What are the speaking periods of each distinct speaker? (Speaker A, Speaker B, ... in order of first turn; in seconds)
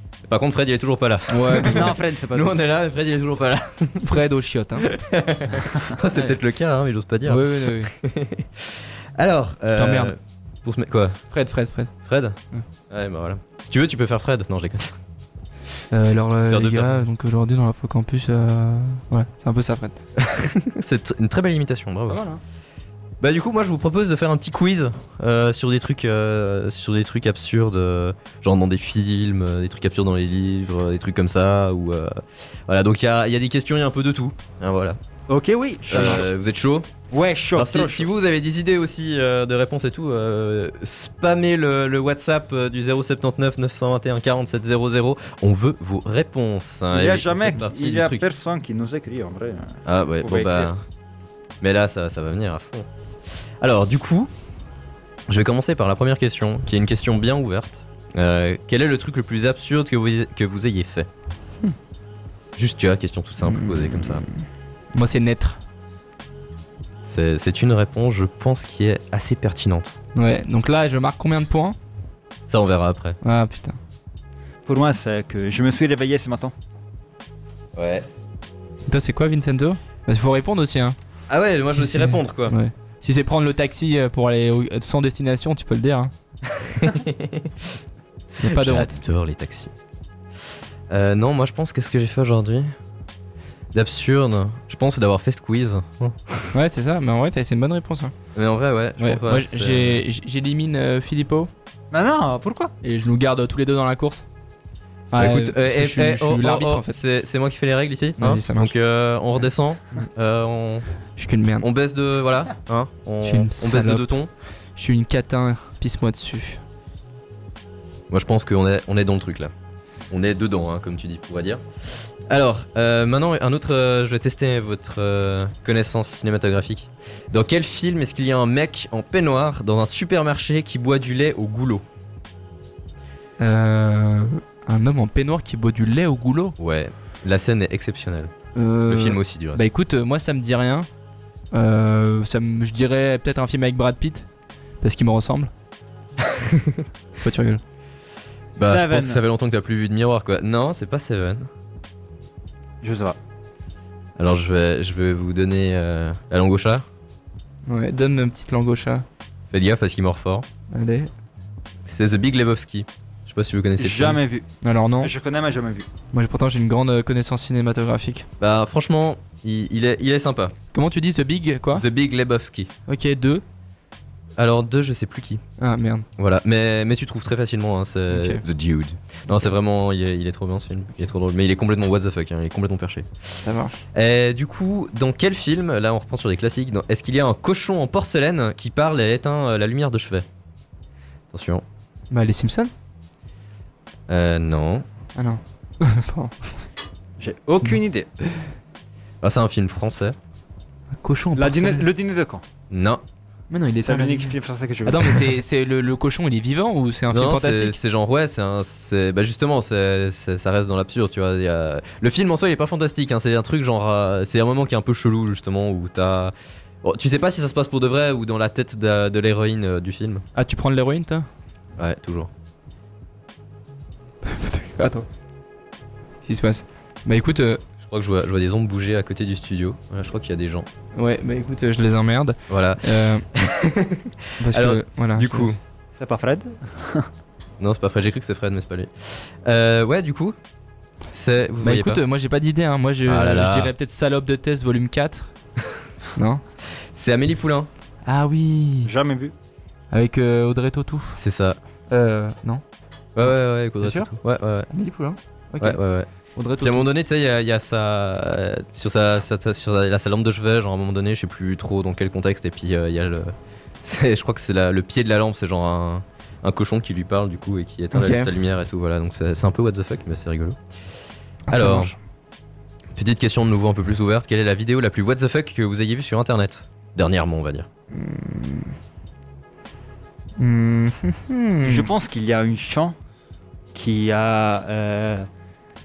Speaker A: 0.2-4.2, 4.8-11.2, 12.0-12.4, 12.9-14.9, 16.5-17.0, 20.2-22.2, 23.2-32.2, 32.7-35.0, 35.9-36.9, 37.5-48.3, 49.9-50.8, 51.6-52.9, 53.6-54.3, 55.3-61.1, 62.6-64.2, 67.0-70.0, 72.5-73.2, 77.8-78.0, 81.3-82.5, 86.5-87.7, 88.4-89.7, 90.9-92.7, 93.7-96.5, 98.3-100.0, 105.2-110.8, 111.6-114.3, 118.1-119.5, 120.1-131.8, 136.6-138.3, 138.9-139.7, 146.3-146.8, 148.6-151.5, 154.2-156.8, 159.5-160.4, 161.8-164.2, 168.4-170.5, 171.7-172.7, 174.4-175.4, 176.2-183.1, 183.9-190.2, 191.3-191.6, 194.1-194.8, 199.2-200.2, 202.7-203.0, 207.1-220.2, 221.8-222.3, 227.8-230.7, 232.5-235.6, 237.6-240.3, 241.1-242.0, 243.1-243.7, 246.9-247.7, 251.2-251.6, 253.2-254.7, 255.6-256.1, 256.6-270.6, 271.5-271.9, 272.9-277.7
Speaker B: 1.3-1.9, 4.0-4.9, 7.2-7.9, 9.8-10.1, 11.3-11.9, 15.9-19.9, 22.1-22.4, 63.4-64.4, 64.9-65.6, 70.1-71.8, 73.2-73.8, 78.9-81.0, 81.7-86.1, 88.4-88.9, 96.5-98.1, 99.0-101.5, 102.8-104.2, 105.1-107.0, 108.2-108.7, 111.2-111.7, 113.2-114.1, 114.8-116.6, 133.4-136.6, 138.5-140.9, 141.5-144.3, 144.8-145.5, 147.2-147.6, 157.7-159.0, 160.7-161.1, 164.6-165.1, 166.1-168.3, 170.7-171.8, 172.9-173.4, 175.6-176.1, 178.1-178.4, 183.4-183.8, 192.1-192.7, 195.2-196.3, 201.0-201.8, 203.5-204.3, 204.8-207.8, 220.3-221.3, 224.2-225.1, 226.2-227.6, 230.9-233.3, 234.4-235.5, 241.6-245.3, 246.1-246.4, 248.1-248.9, 249.9-251.2, 251.9-252.6, 253.8-254.2, 254.7-255.8, 256.3-256.9, 267.9-268.3, 271.5-271.9, 277.9-278.7, 280.4-281.9
Speaker C: 1.6-2.6, 35.3-36.3, 37.1-38.1, 46.9-50.7, 74.7-76.5, 101.9-102.7, 148.6-149.2, 152.8-153.2, 163.8-164.5, 165.0-165.9, 197.2-198.1, 201.3-202.4, 203.8-205.3, 235.9-237.1, 248.8-249.3, 281.6-282.9, 283.7-285.3